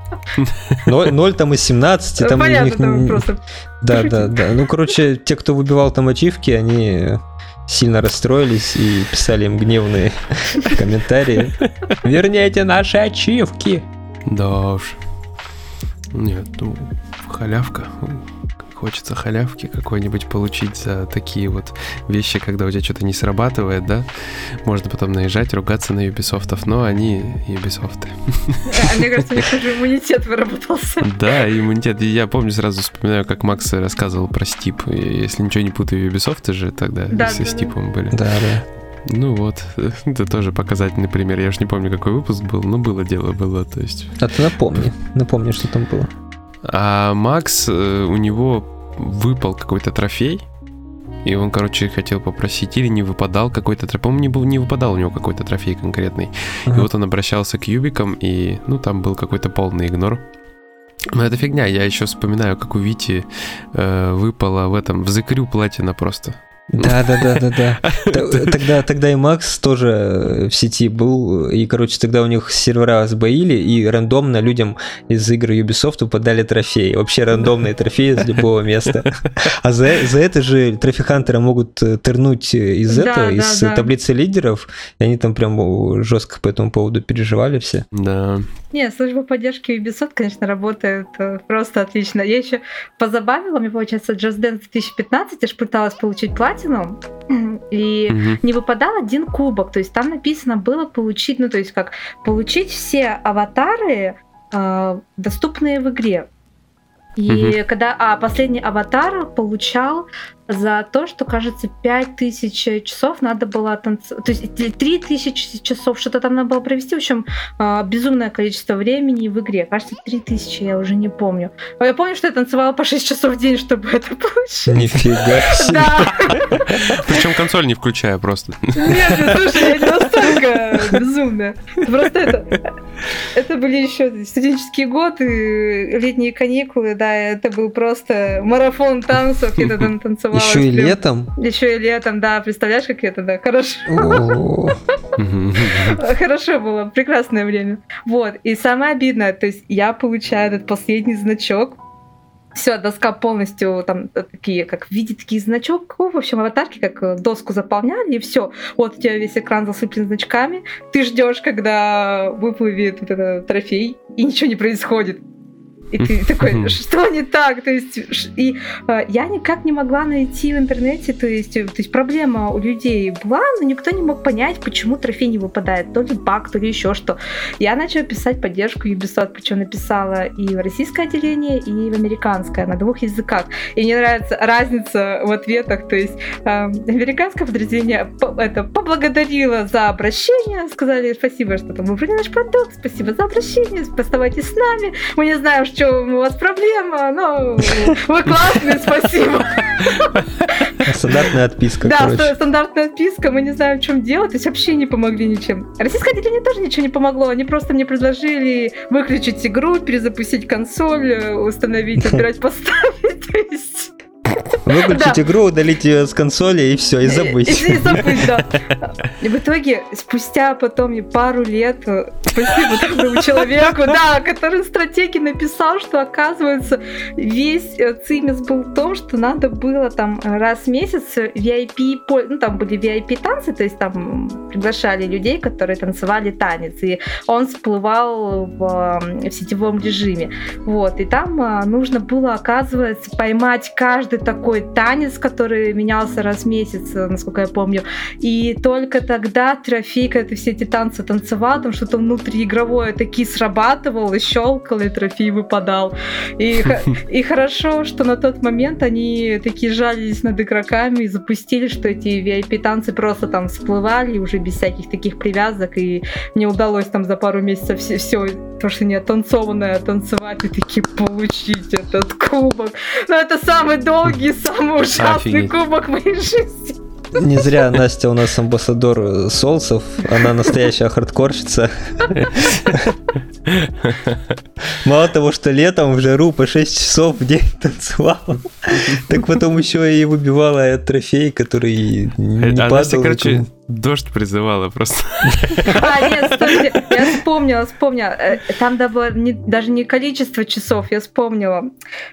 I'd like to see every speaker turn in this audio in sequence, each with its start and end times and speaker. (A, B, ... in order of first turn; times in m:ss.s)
0:00.4-0:00.9 A
0:00.8-0:03.3 B
0:02.2-0:04.4 C
0:03.8-0:13.9 B
0:11.6-0:12.0 A
0:14.3-0:15.0 A
0:16.1-0:29.1 A
0:28.7-0:31.1 C
0:31.0-0:38.2 A
0:37.1-0:37.7 C
0:38.1-0:38.6 B
0:39.1-0:44.2 A
0:44.2-0:46.1 B
0:46.7-0:50.4 A
0:51.2-1:00.2 A
1:01.1-1:08.7 A
1:06.7-1:27.8 B
1:22.9-1:23.9 C
1:27.9-1:28.5 A
1:28.7-1:46.3 C
1:38.1-1:38.4 A
1:47.2-2:07.1 C
1:47.3-1:47.6 A
2:04.7-2:06.1 B
2:06.7-2:09.5 A
2:08.8-2:12.6 C
2:13.3-2:24.2 C
2:20.3-2:21.3 B
2:23.9-2:24.8 B
2:25.2-2:26.0 A
2:25.8-2:31.8 C
2:32.6-2:45.2 C
2:45.9-3:20.8 C
2:46.0-2:46.8 A
3:20.8-3:22.4 B
3:21.8-3:33.9 C
3:32.0-3:32.2 B
3:34.7-3:38.3 B
3:34.8-3:35.2 C
3:37.1-4:36.8 C
4:35.0-4:35.5 A
4:37.1-4:43.0 B
4:43.5-4:44.4 A
4:44.8-4:53.5 B
4:52.4-4:57.0 A
4:55.3-4:55.7 B
4:55.7-5:01.7 C